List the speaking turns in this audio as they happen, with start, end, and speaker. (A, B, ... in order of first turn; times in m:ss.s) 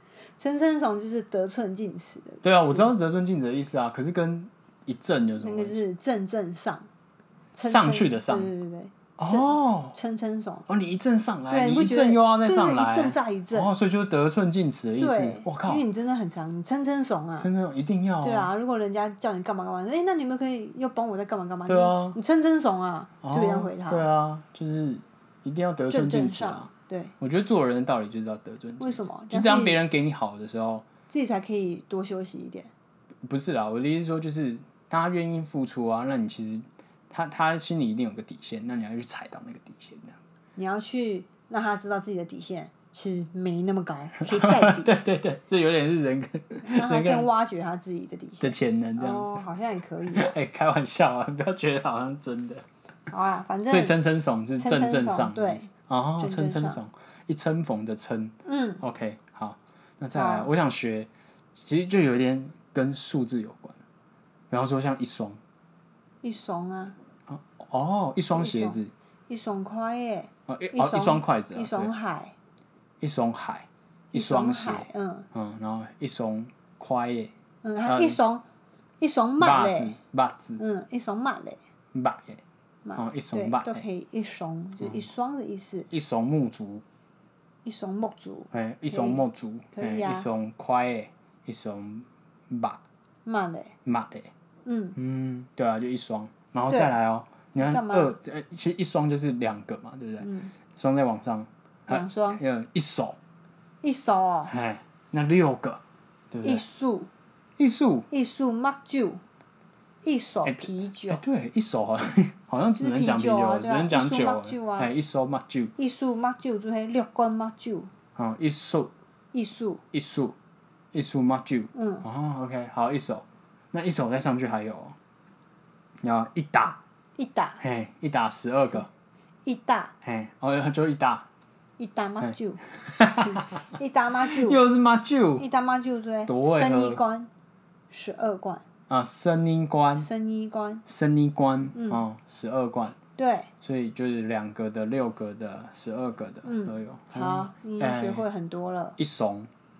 0:00.4-0:02.9 A
0:02.4-0:05.8 B
0:05.4-0:06.9 A
0:07.5-0:10.7 A
0:07.6-0:08.5 B
0:09.2-0:10.0 B
0:10.7-0:15.8 B
0:11.5-0:13.7 A
0:15.0-0:17.5 A
0:17.4-0:18.5 B
0:18.2-0:24.1 A
0:21.6-0:22.2 B
0:23.2-0:30.9 B
0:25.9-0:27.1 A
0:28.8-0:29.8 A
0:31.1-0:32.7 A
0:33.2-0:40.2 B
0:40.6-0:44.9 A
0:44.2-0:47.3 B
0:46.6-0:50.3 A
0:48.4-0:49.4 B
0:50.1-0:52.6 B
0:53.1-0:54.0 A
0:53.7-1:03.8 B
0:54.6-0:56.8 A
0:58.4-0:58.8 A
1:00.1-1:00.5 A
1:04.5-1:05.4 B
1:06.2-1:07.0 A
1:07.3-1:08.9 B
1:08.3-1:12.3 A
1:10.5-1:11.9 B
1:13.0-1:17.3 B
1:14.1-1:15.3 A
1:17.6-1:18.4 A
1:17.8-1:18.2 B
1:19.0-1:20.0 A
1:19.4-1:20.6 B
1:20.6-1:21.6 A
1:21.9-1:22.4 B
1:22.8-1:25.9 A
1:23.0-1:23.8 B
1:25.9-1:26.8 B
1:27.6-1:30.3 A
1:28.5-1:32.8 B
1:33.2-1:33.7 A
1:33.8-1:34.3 B
1:34.6-1:35.0 A
1:35.0-1:43.2 B
1:36.7-1:36.9 A
1:37.5-1:38.1 A
1:40.2-1:40.5 A
1:41.9-1:42.4 A
1:43.8-1:44.5 A
1:44.5-1:46.6 B
1:46.4-1:47.1 A
1:47.6-1:48.1 B
1:48.1-1:49.2 A
1:50.0-1:51.2 A
1:50.4-1:55.7 B
1:52.8-1:54.9 A
1:55.8-1:57.9 A
1:58.2-1:58.9 B
1:59.3-1:59.8 A
1:59.9-2:00.3 B
2:00.9-2:05.0 B
2:01.7-2:02.0 A
2:06.0-2:06.8 B
2:07.2-2:07.6 A
2:07.6-2:08.9 B
2:09.4-2:09.9 A
2:10.0-2:11.2 B
2:11.8-2:12.6 A
2:12.2-2:13.6 B
2:13.2-2:14.6 A
2:14.3-2:15.4 B
2:15.4-2:17.3 A
2:16.3-2:17.0 B
2:17.9-2:18.6 A
2:18.9-2:20.1 B
2:20.0-2:20.8 A
2:20.8-2:23.0 B
2:21.7-2:22.0 A
2:23.2-2:23.5 A
2:23.6-2:28.2 B
2:26.4-2:29.0 A
2:29.0-2:29.5 B